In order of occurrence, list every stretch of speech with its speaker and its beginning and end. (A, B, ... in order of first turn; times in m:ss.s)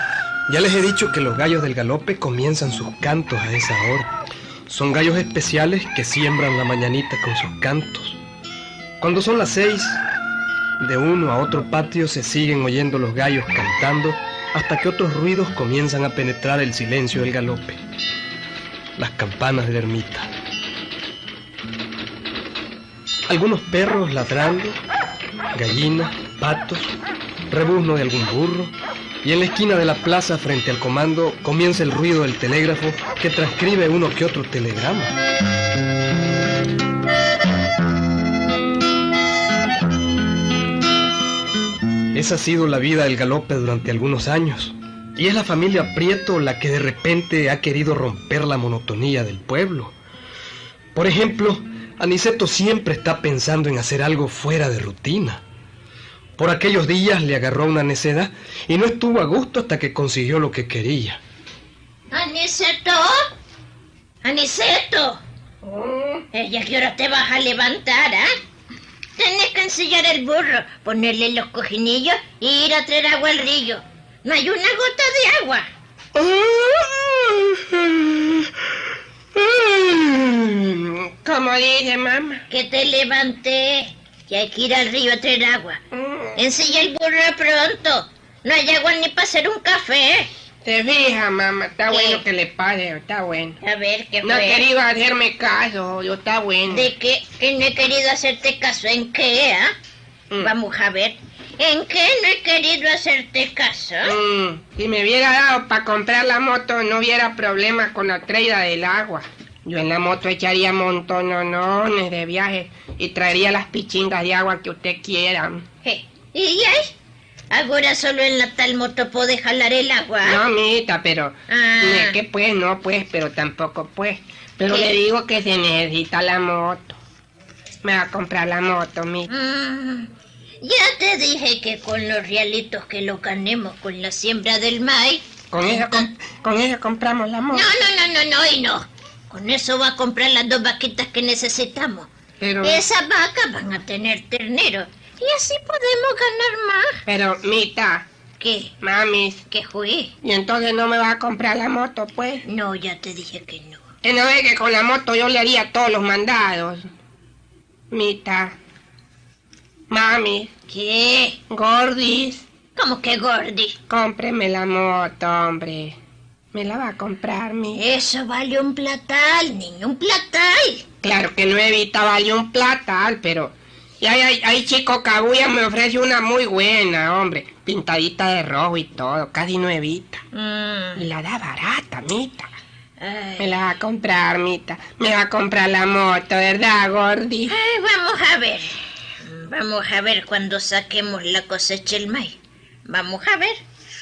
0:00.5-0:04.1 A
0:04.7-0:08.2 A
0:09.0-0:10.0 A
0:10.8-0:17.8 A
0:19.0-0:20.3 A
0:23.3-0:24.8 A
0:25.5-0:27.0 A
0:27.5-0:35.2 A
0:42.1-0:49.9 A
0:51.0-0:55.4 A
0:56.4-1:01.2 A
1:02.1-1:03.3 B
1:04.2-1:05.2 B
1:05.6-1:06.3 C
1:06.3-1:08.3 B
1:09.2-1:15.7 B
1:16.2-1:18.7 C
1:19.4-1:22.4 C
1:22.5-1:25.8 B
1:25.9-1:26.4 C
1:26.4-1:30.3 B
1:30.6-1:33.6 C
1:31.9-1:32.2 B
1:33.6-1:34.6 B
1:34.2-1:36.9 C
1:36.7-1:39.7 B
1:40.4-1:44.2 B
1:44.0-1:55.6 C
1:55.8-1:56.9 B
1:57.5-2:00.4 B
2:00.2-2:07.0 C
2:01.5-2:02.2 B
2:04.7-2:05.0 B
2:07.8-2:09.3 C
2:09.3-2:10.1 B
2:10.6-2:16.1 B
2:15.5-2:17.7 C
2:17.5-2:22.1 B
2:22.4-2:22.8 C
2:22.6-2:27.0 B
2:27.1-2:28.1 C
2:28.4-2:28.7 B
2:28.8-2:29.4 C
2:29.5-2:30.1 B
2:30.2-2:32.4 C
2:32.4-2:33.8 B
2:34.0-2:36.9 C
2:37.9-2:38.6 C
2:39.9-2:40.5 C
2:40.7-2:41.4 B
2:41.5-2:42.5 C
2:42.8-2:43.8 B
2:43.9-2:46.0 C
2:46.5-2:47.8 C
2:47.7-2:50.8 B
2:51.0-3:00.2 C
3:00.3-3:01.1 B
3:01.0-3:02.5 C
3:03.0-3:03.5 B
3:03.4-3:07.5 C
3:07.5-3:13.6 B